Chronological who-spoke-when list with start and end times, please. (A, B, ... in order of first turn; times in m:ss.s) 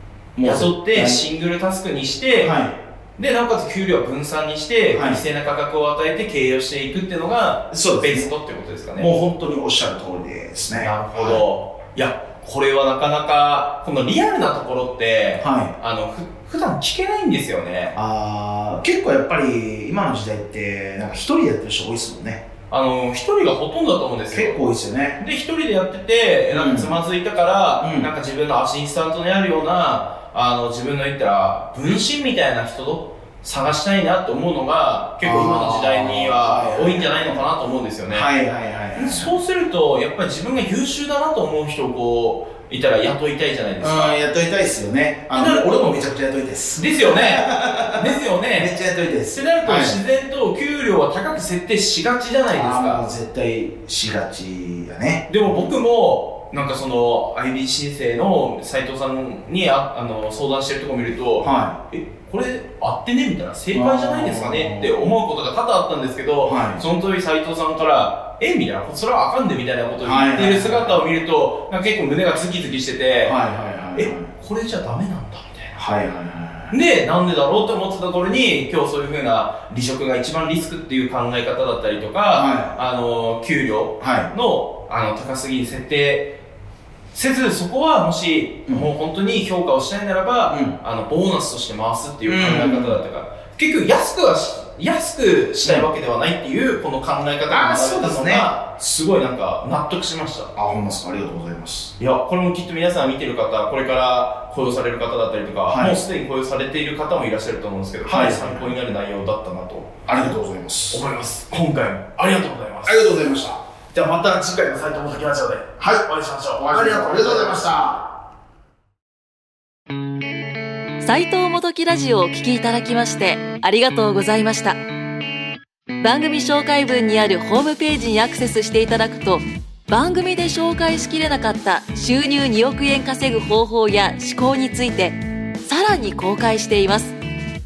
0:00.3-0:01.2 A
0:00.4-0:02.6 B
0:02.4-0:02.8 A
0:03.2-0:09.1 B
0:04.9-0:05.2 A
0:07.7-0:08.3 A
0:09.0-0:11.4 A
0:10.7-0:18.0 B
0:15.4-0:15.7 A
0:17.9-0:22.4 A
0:22.7-0:38.3 B
0:24.3-0:25.2 A
0:26.5-0:27.0 A
0:27.8-0:28.1 A
0:35.2-0:37.4 A
0:38.1-0:39.4 A
0:38.9-0:44.2 B
0:43.8-0:50.0 A
0:45.3-0:46.1 B
0:46.8-0:48.7 B
0:49.3-0:53.0 B
0:52.5-0:55.8 A
0:55.3-1:13.4 B
1:01.4-1:01.8 A
1:03.7-1:05.0 A
1:06.4-1:06.8 A
1:10.0-1:11.0 A
1:13.2-1:14.3 A
1:13.9-1:15.8 B
1:15.7-1:16.8 A
1:16.7-1:26.4 B
1:22.3-1:22.8 A
1:24.0-1:24.3 A
1:27.1-1:40.5 B
1:30.5-1:30.8 A
1:32.2-1:33.0 A
1:35.6-1:35.9 A
1:37.5-1:38.5 A
1:40.5-1:41.9 A
1:42.0-1:50.4 B
1:45.7-1:46.0 A
1:48.0-1:48.7 A
1:50.1-1:51.0 A
1:50.9-1:53.0 B
1:52.8-1:53.6 A
1:53.9-1:57.7 B
1:55.8-1:58.0 A
2:01.0-2:04.8 C
2:06.0-2:17.2 C